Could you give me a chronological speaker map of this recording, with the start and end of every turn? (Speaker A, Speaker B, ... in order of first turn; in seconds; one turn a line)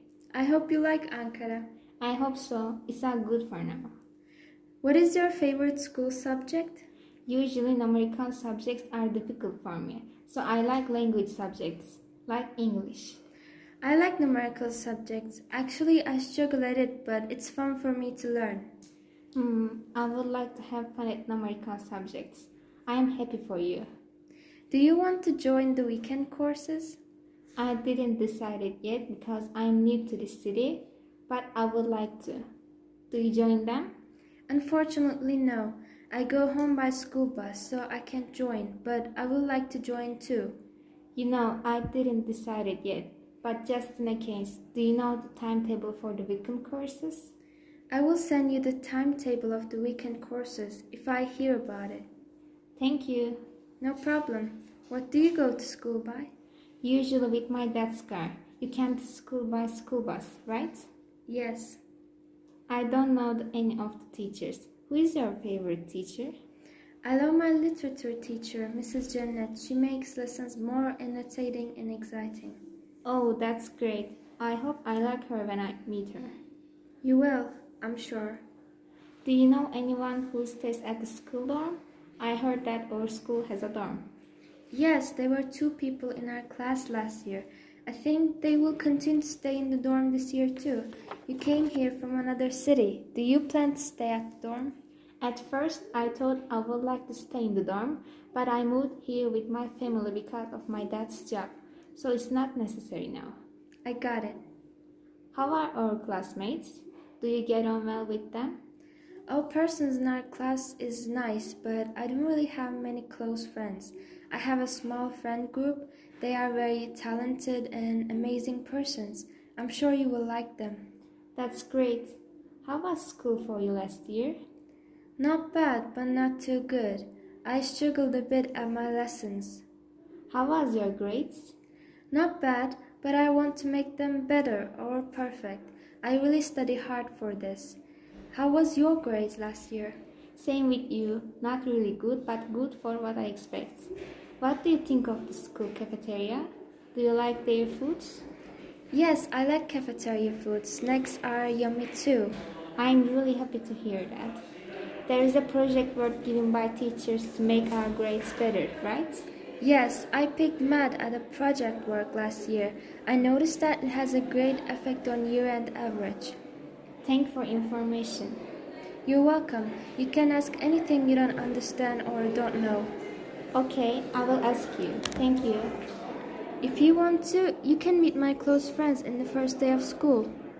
Speaker A: 0.3-1.7
Speaker B: 2.0-3.9
Speaker A: 4.8-6.8
Speaker B: 7.2-13.2
Speaker A: 13.8-18.7
Speaker B: 19.3-23.9
Speaker A: 24.7-27.0
Speaker B: 27.6-32.5
Speaker B: 33.1-33.9
Speaker A: 34.5-40.6
Speaker B: 41.1-47.3
Speaker A: 47.9-52.0
Speaker B: 52.8-53.4
Speaker A: 53.8-56.3
Speaker B: 56.8-60.9
Speaker A: 61.3-61.8
Speaker B: 62.7-66.3
Speaker A: 67.0-72.6
Speaker B: 73.0-76.3
Speaker A: 77.0-78.4
Speaker B: 79.2-84.1
Speaker A: 84.7-94.8
Speaker B: 95.2-103.4
Speaker A: 103.8-104.4
Speaker B: 105.3-108.6
Speaker A: 109.3-120.9
Speaker B: 121.3-124.4
Speaker A: 125.2-129.6
Speaker B: 130.3-131.5
Speaker A: 132.1-137.8
Speaker A: 138.3-140.0
Speaker B: 140.3-148.2
Speaker A: 148.9-152.3
Speaker B: 152.8-154.4
Speaker B: 155.1-159.2
Speaker A: 159.6-166.3
Speaker B: 167.0-168.4
Speaker A: 169.0-172.9
Speaker B: 173.5-175.8
Speaker A: 176.6-180.3